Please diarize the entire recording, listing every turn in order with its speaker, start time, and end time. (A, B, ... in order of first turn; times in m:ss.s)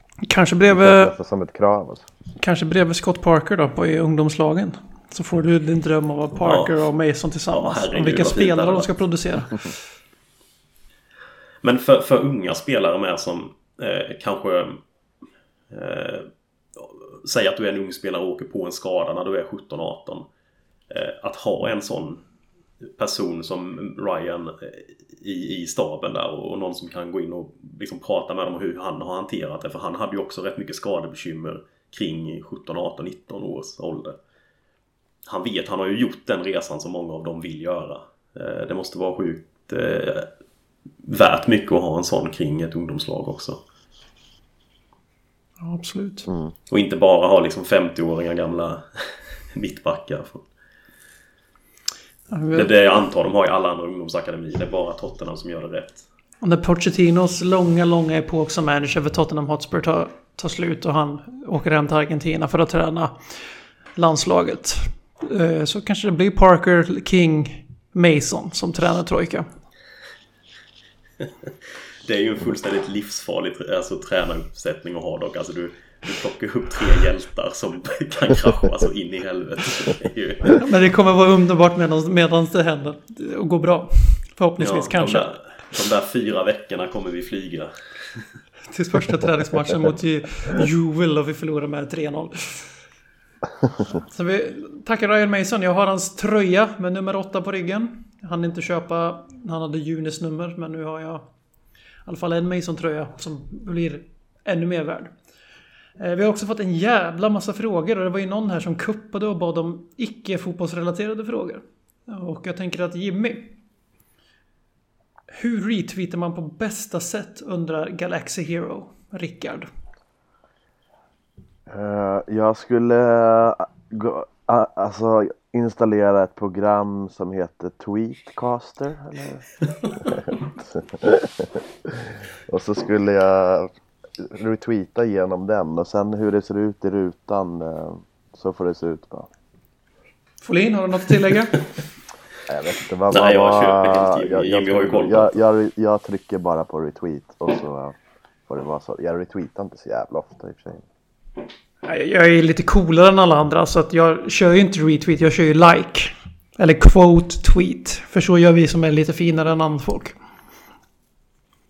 0:00.2-0:01.1 A
0:00.7-0:02.1 B
0:02.4-0:09.7 A
0:06.4-0:06.7 C
0:07.5-0:08.9 C
0:11.6-0:14.8 C
0:15.7-0:20.2 C
0:20.9-0:22.2 C
0:23.0-0:34.2 C
0:35.2-0:40.3 C
0:41.0-0:43.6 C
0:45.6-0:46.3 A
0:46.3-0:46.5 B
0:46.7-0:50.4 C
0:52.3-0:52.7 A
0:52.5-0:56.0 C
0:56.4-1:03.2 A
1:04.0-1:09.5 A
1:12.0-1:20.6 C
1:20.5-1:25.3 A
1:24.6-1:28.2 C
1:28.7-1:32.7 A
1:33.9-1:41.3 A
1:42.0-1:45.1 A
1:46.0-1:53.5 A
1:55.3-1:59.7 A
2:01.7-2:09.5 B
2:10.0-2:19.3 B
2:20.4-2:21.6 A
2:22.5-2:27.9 B
2:23.1-2:25.4 C
2:28.5-2:30.8 B
2:31.8-2:40.2 A